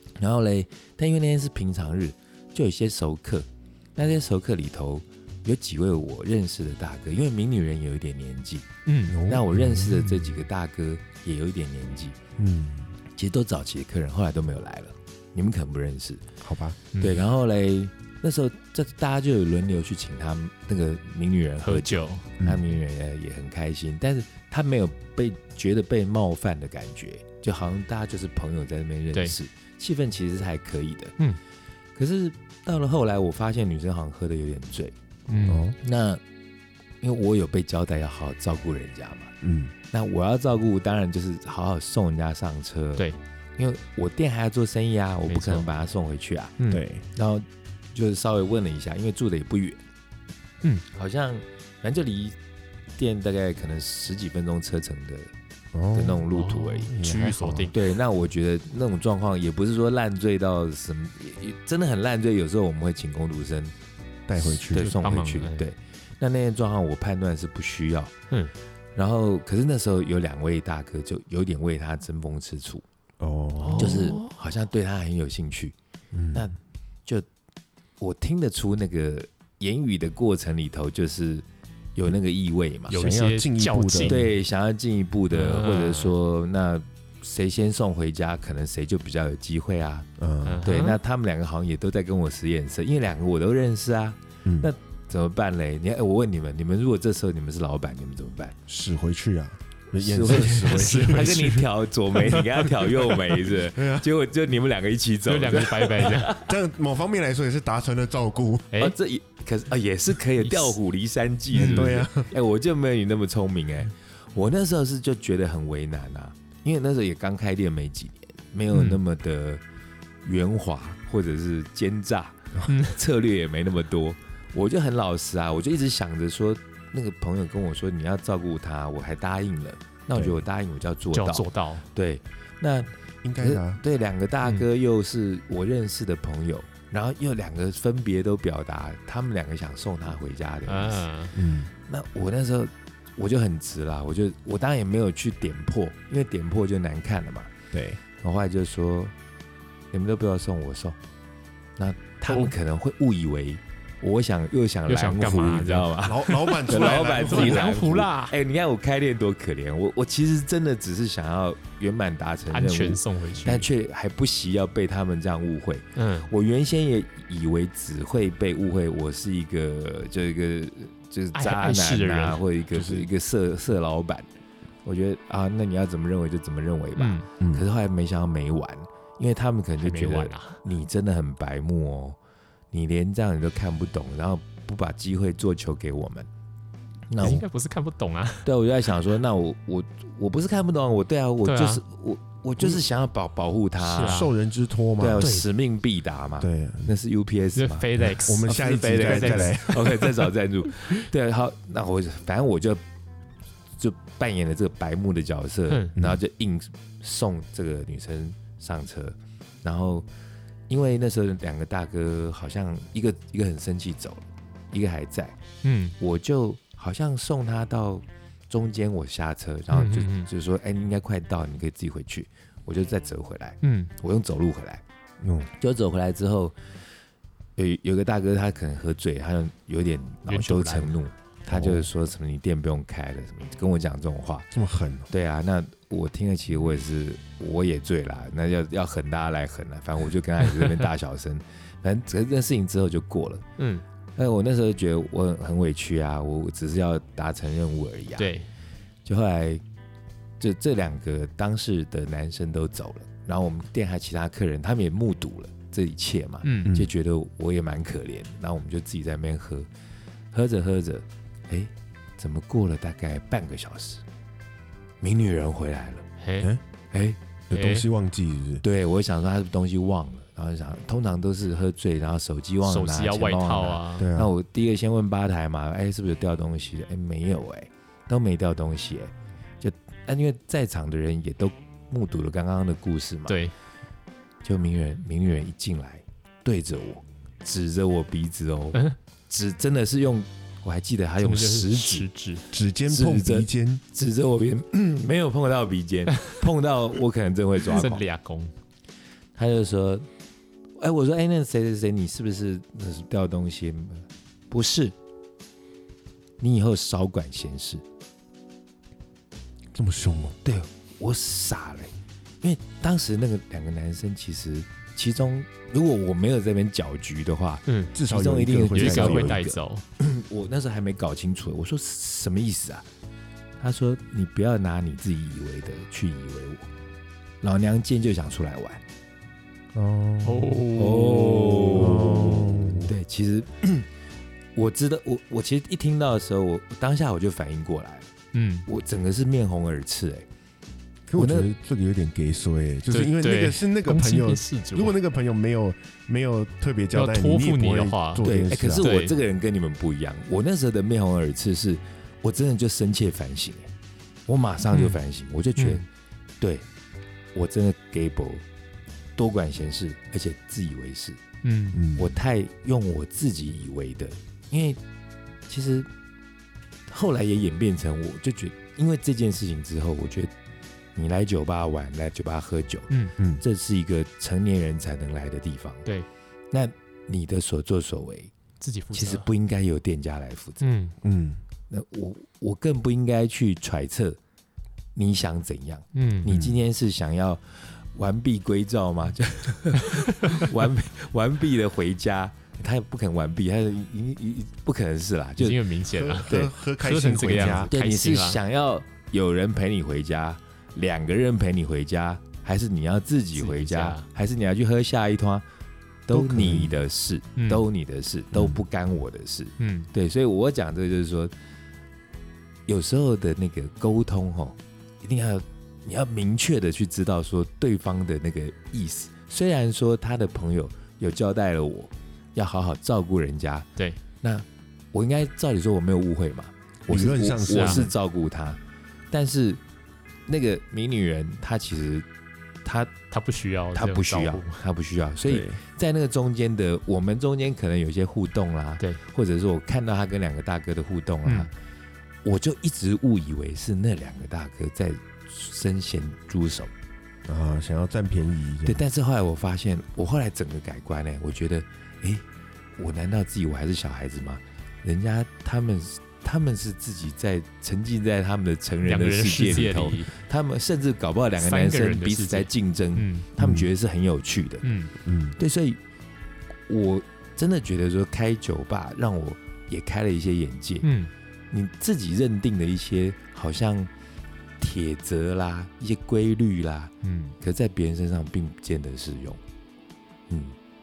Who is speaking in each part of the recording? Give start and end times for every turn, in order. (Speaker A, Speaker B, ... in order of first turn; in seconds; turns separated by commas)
Speaker A: 0.2-8.7, Speaker B: 8.8-9.2, Speaker C: 9.1-10.3, Speaker A: 9.2-12.2, Speaker C: 12.4-12.9, Speaker A: 13.2-16.2, Speaker C: 16.4-16.8, Speaker B: 16.9-17.2, Speaker A: 17.0-31.1, Speaker B: 21.6-22.2, Speaker A: 31.9-34.9, Speaker B: 35.3-35.6, Speaker C: 35.5-35.8, Speaker A: 35.8-36.2, Speaker A: 37.0-39.3, Speaker C: 39.4-39.7, Speaker A: 39.9-46.5, Speaker B: 45.3-45.7, Speaker B: 46.6-46.8, Speaker C: 46.7-47.0, Speaker A: 47.1-49.8, Speaker A: 50.9-52.4, Speaker A: 53.0-55.3, Speaker C: 55.7-56.3, Speaker A: 55.9-56.9, Speaker B: 56.3-57.8, Speaker C: 56.9-57.7, Speaker A: 57.7-63.7, Speaker C: 64.3-64.9, Speaker A: 64.4-68.1, Speaker B: 64.7-65.7, Speaker A: 69.0-72.8, Speaker C: 73.2-74.2, Speaker B: 73.6-74.3, Speaker A: 73.8-75.7, Speaker C: 76.1-76.5, Speaker A: 76.3-77.3, Speaker A: 78.0-81.4, Speaker A: 82.0-83.0, Speaker B: 82.9-84.3, Speaker C: 82.9-84.2, Speaker A: 84.0-90.1, Speaker B: 85.3-86.1, Speaker C: 90.2-90.6, Speaker B: 90.4-91.0, Speaker A: 90.6-98.5, Speaker C: 98.7-101.6, Speaker A: 99.9-106.5, Speaker B: 100.7-101.6, Speaker C: 103.6-104.0, Speaker B: 105.2-106.4, Speaker C: 106.3-108.7, Speaker A: 108.8-119.6, Speaker B: 110.4-110.7, Speaker B: 111.5-112.0, Speaker C: 111.5-112.3, Speaker B: 118.7-119.0, Speaker A: 120.2-141.1, Speaker B: 122.7-123.0, Speaker C: 130.1-130.4, Speaker B: 131.1-131.8, Speaker C: 133.2-133.8, Speaker B: 140.7-141.3, Speaker C: 141.3-141.7, Speaker A: 141.9-147.5, Speaker C: 147.7-148.0, Speaker A: 148.2-149.1, Speaker A: 149.9-151.0, Speaker A: 151.8-174.3, Speaker B: 152.3-152.5, Speaker B: 154.9-158.3, Speaker C: 156.0-157.8, Speaker B: 162.5-163.7, Speaker B: 165.9-166.3, Speaker B: 171.3-172.4, Speaker C: 172.7-173.1, Speaker A: 174.8-182.2, Speaker B: 176.9-177.2, Speaker C: 177.4-177.6, Speaker B: 179.8-180.6, Speaker A: 182.7-186.3, Speaker A: 187.1-187.4, Speaker B: 187.2-188.5, Speaker A: 188.4-194.3, Speaker B: 191.4-191.8, Speaker B: 193.8-194.3, Speaker C: 194.0-195.3, Speaker A: 195.0-197.9, Speaker B: 195.2-195.5, Speaker C: 196.4-196.9, Speaker B: 197.6-199.6, Speaker C: 198.0-200.3, Speaker A: 198.4-202.8, Speaker A: 203.8-210.1, Speaker B: 205.7-205.9, Speaker C: 205.9-206.2, Speaker A: 210.7-215.4, Speaker B: 215.6-215.9, Speaker A: 216.0-224.8, Speaker B: 219.7-220.3, Speaker B: 223.6-223.9, Speaker C: 225.2-225.5, Speaker A: 225.6-226.5, Speaker A: 227.6-234.5, Speaker B: 230.3-230.9, Speaker C: 231.5-231.9, Speaker C: 234.5-235.1, Speaker A: 235.1-243.4, Speaker B: 243.6-243.8, Speaker A: 244.2-248.3, Speaker B: 248.2-248.5, Speaker A: 249.0-249.6, Speaker A: 250.4-259.7, Speaker B: 256.4-256.8, Speaker C: 256.6-256.9, Speaker A: 260.3-264.0, Speaker A: 265.0-266.1, Speaker B: 266.2-266.5, Speaker A: 266.9-267.2, Speaker C: 267.5-268.6, Speaker B: 267.5-267.9, Speaker A: 268.6-283.4, Speaker B: 272.6-274.1, Speaker C: 274.0-274.3, Speaker B: 283.3-283.5, Speaker A: 284.4-292.1, Speaker B: 291.2-292.4, Speaker C: 292.5-293.8, Speaker A: 292.9-298.0, Speaker B: 297.7-298.5, Speaker A: 299.4-300.1, Speaker A: 300.8-304.9, Speaker A: 306.4-307.8, Speaker C: 309.7-310.4, Speaker A: 310.4-322.9, Speaker B: 317.7-317.9, Speaker C: 317.9-319.4, Speaker B: 318.7-319.8, Speaker A: 323.6-326.7, Speaker A: 327.4-328.8, Speaker C: 329.7-330.6, Speaker B: 330.2-332.0, Speaker A: 330.7-333.9, Speaker C: 331.7-332.9, Speaker A: 334.6-338.1, Speaker B: 338.3-338.6, Speaker A: 338.7-340.3, Speaker C: 341.1-348.9, Speaker A: 341.2-341.5, Speaker B: 342.9-344.9, Speaker B: 346.9-349.1, Speaker A: 348.2-353.7, Speaker A: 354.3-355.8, Speaker B: 354.7-355.0, Speaker B: 355.6-355.8, Speaker A: 356.4-356.6, Speaker A: 357.3-358.4, Speaker A: 359.1-361.2, Speaker B: 361.4-361.8, Speaker C: 361.7-362.1, Speaker A: 361.9-364.8, Speaker A: 365.5-365.9, Speaker A: 366.9-370.3, Speaker A: 370.9-372.9, Speaker B: 372.9-373.1, Speaker A: 373.4-375.9, Speaker A: 376.5-378.3, Speaker B: 378.6-379.3, Speaker A: 378.9-380.6, Speaker B: 380.6-380.9, Speaker C: 381.0-381.4, Speaker A: 381.7-384.2, Speaker A: 384.9-395.6, Speaker B: 385.9-386.3, Speaker C: 386.2-386.6, Speaker B: 395.4-398.4, Speaker C: 395.9-397.7, Speaker A: 397.6-405.4, Speaker B: 403.4-404.1, Speaker A: 406.1-411.3, Speaker C: 406.1-406.8, Speaker B: 407.4-407.6, Speaker B: 409.6-409.9, Speaker A: 412.7-423.7, Speaker A: 424.2-428.6, Speaker C: 426.9-427.9, Speaker B: 427.5-427.9, Speaker A: 429.1-429.6, Speaker A: 430.3-432.1, Speaker A: 432.6-432.9, Speaker B: 433.1-434.6, Speaker A: 433.7-441.5, Speaker C: 435.2-435.6, Speaker A: 442.2-446.7, Speaker C: 447.3-448.8, Speaker A: 448.6-452.2, Speaker A: 452.8-464.7, Speaker B: 458.8-460.1, Speaker B: 461.4-463.3, Speaker C: 463.4-463.7, Speaker B: 464.6-464.9, Speaker C: 465.0-465.4, Speaker A: 465.4-465.8, Speaker A: 466.7-470.9, Speaker B: 470.8-471.1, Speaker A: 471.5-473.9, Speaker A: 474.6-479.4, Speaker B: 477.0-477.4, Speaker A: 480.3-480.6